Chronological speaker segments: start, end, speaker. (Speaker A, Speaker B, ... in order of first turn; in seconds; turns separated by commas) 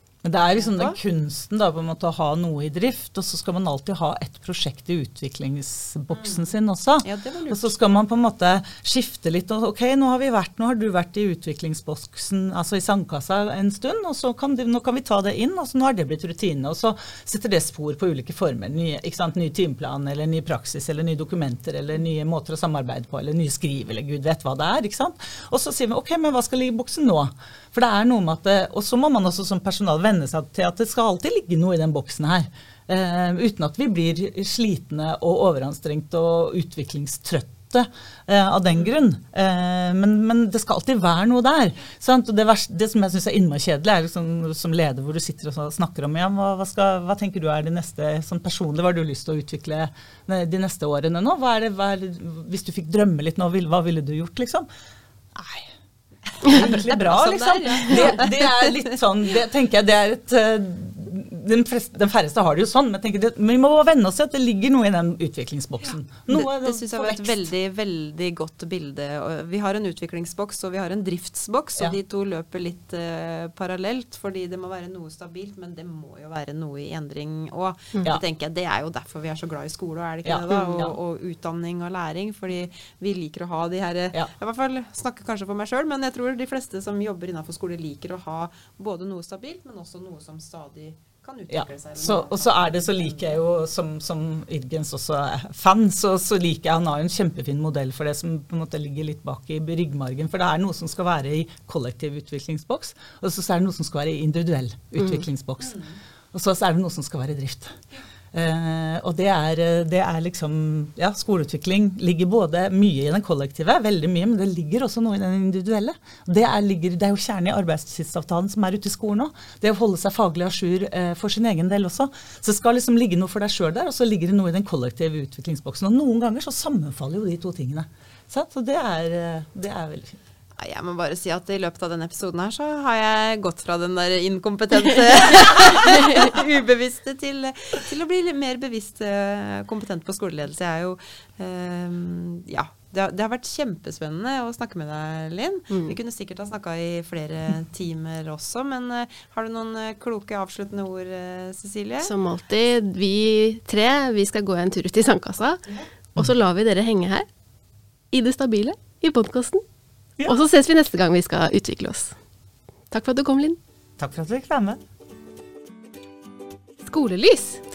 Speaker A: 0.2-54.7, Speaker B: 0.5-1.0, Speaker B: 6.1-6.5, Speaker B: 7.0-7.7, Speaker A: 55.4-55.7, Speaker A: 56.4-67.4, Speaker B: 56.5-58.9, Speaker B: 66.3-93.4, Speaker A: 80.2-81.0, Speaker A: 91.5-105.8, Speaker A: 106.3-107.8, Speaker A: 108.3-130.2, Speaker B: 130.6-152.1, Speaker C: 145.7-146.0, Speaker C: 152.0-155.6, Speaker C: 156.1-157.3, Speaker C: 158.1-159.6, Speaker C: 160.2-162.2, Speaker C: 162.9-163.6, Speaker A: 164.0-164.8, Speaker C: 166.8-167.6